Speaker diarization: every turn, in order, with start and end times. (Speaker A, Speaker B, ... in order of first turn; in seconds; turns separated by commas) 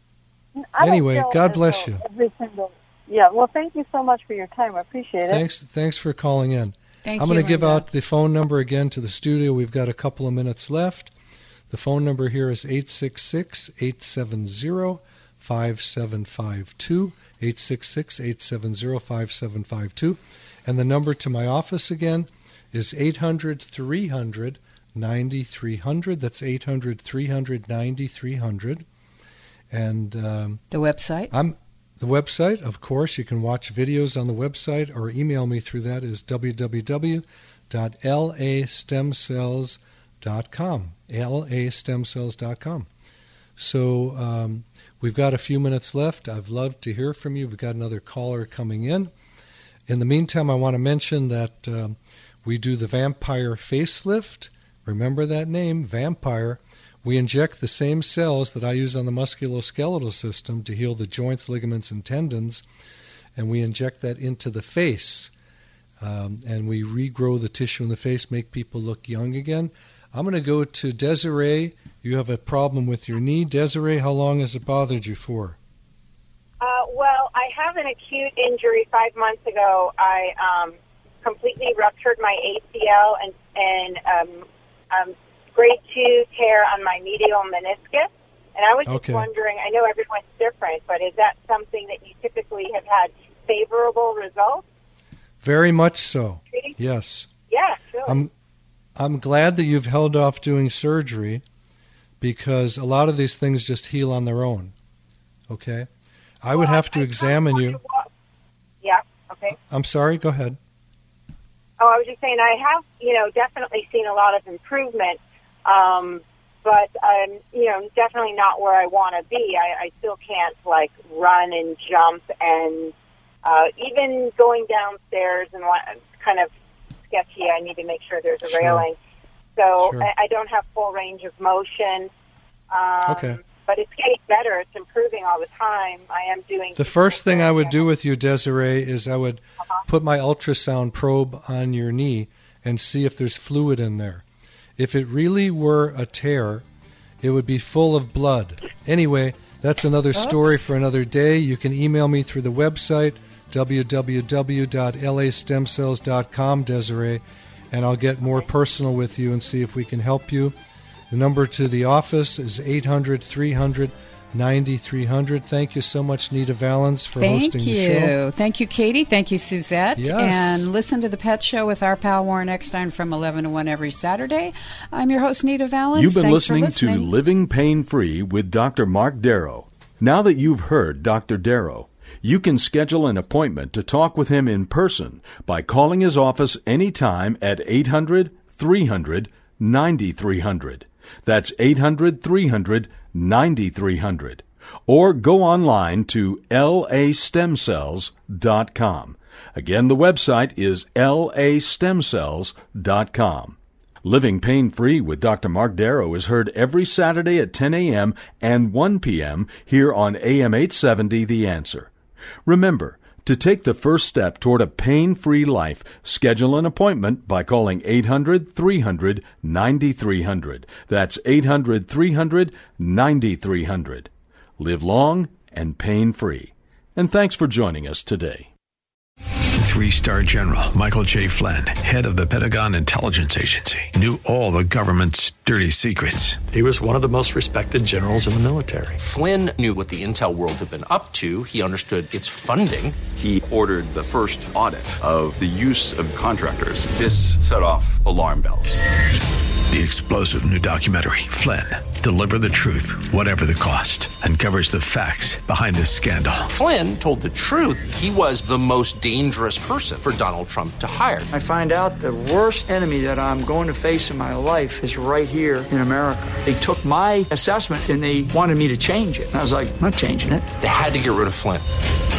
Speaker A: 0.6-5.4, Speaker B: 0.8-2.0, Speaker B: 5.3-11.1, Speaker C: 7.1-7.9, Speaker B: 11.7-28.9, Speaker B: 29.7-30.6, Speaker C: 30.7-31.3, Speaker B: 31.3-42.9, Speaker B: 43.6-49.1, Speaker B: 49.9-62.6, Speaker B: 63.4-65.3, Speaker B: 66.0-75.6, Speaker D: 76.6-94.7, Speaker B: 88.9-89.3, Speaker B: 95.4-97.3, Speaker D: 97.5-98.2, Speaker B: 98.0-98.3, Speaker B: 99.0-101.4, Speaker B: 102.2-104.7, Speaker B: 105.5-105.9, Speaker B: 106.4-107.8, Speaker D: 106.5-108.1, Speaker D: 108.8-109.6, Speaker B: 109.5-110.6, Speaker D: 111.8-126.5, Speaker D: 127.1-129.0, Speaker B: 128.5-128.9, Speaker D: 129.6-132.1, Speaker B: 129.8-130.1, Speaker D: 132.7-137.9, Speaker B: 133.1-133.4, Speaker B: 136.8-144.2, Speaker B: 144.8-146.7, Speaker B: 147.2-160.6, Speaker C: 150.2-150.7, Speaker B: 161.1-168.2, Speaker C: 167.2-177.1, Speaker B: 170.0-170.7, Speaker E: 175.9-211.9, Speaker E: 212.5-228.5, Speaker F: 229.6-236.4, Speaker G: 236.5-239.0, Speaker H: 239.0-243.0, Speaker I: 243.1-248.8, Speaker F: 249.7-256.5, Speaker H: 256.5-261.3, Speaker J: 261.3-270.5, Speaker H: 270.6-271.6